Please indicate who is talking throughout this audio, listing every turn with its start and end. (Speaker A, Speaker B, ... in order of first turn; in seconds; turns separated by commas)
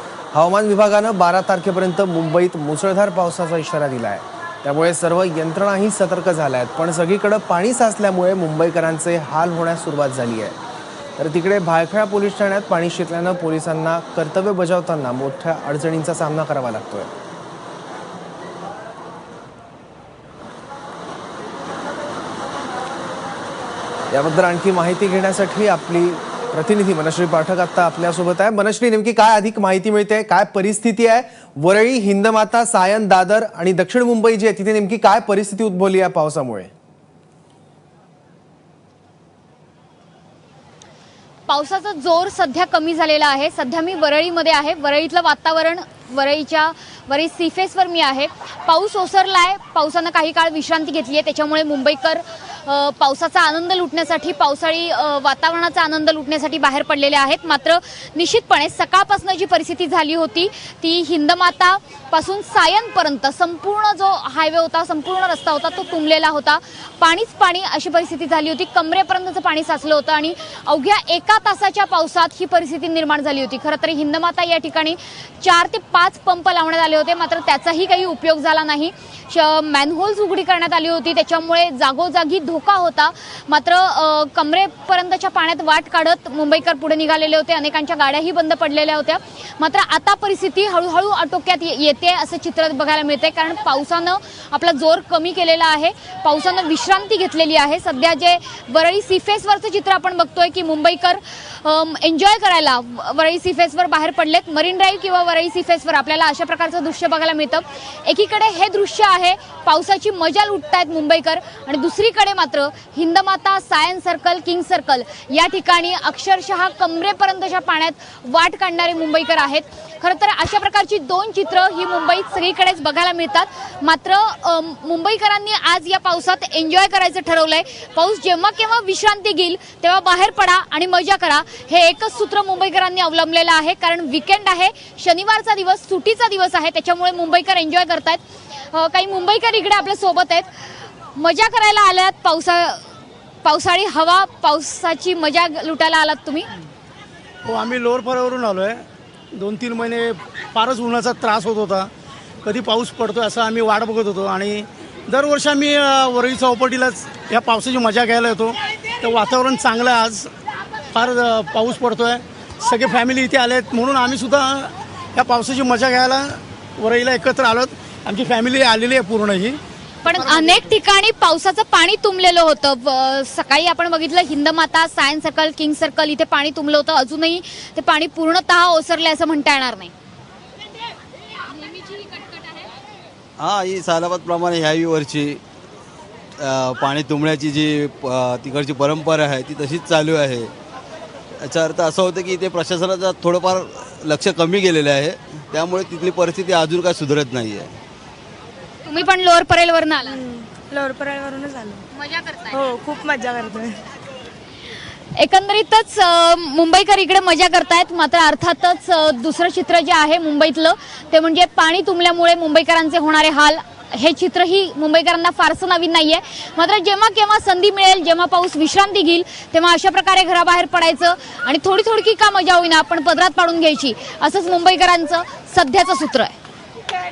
Speaker A: 0.3-10.6, Speaker A: 11.2-17.1, Speaker A: 24.1-36.7, Speaker B: 41.5-138.2, Speaker B: 138.7-140.5, Speaker B: 141.2-142.8, Speaker B: 143.4-146.5, Speaker C: 147.4-151.9, Speaker C: 152.4-160.3, Speaker C: 160.9-169.6, Speaker B: 170.0-179.9, Speaker C: 170.2-170.7, Speaker B: 181.7-182.2, Speaker D: 183.4-185.4, Speaker D: 186.4-190.5, Speaker D: 191.4-197.7, Speaker B: 198.9-200.2, Speaker E: 200.1-201.8, Speaker B: 202.0-202.5, Speaker E: 202.5-203.8, Speaker B: 205.2-226.3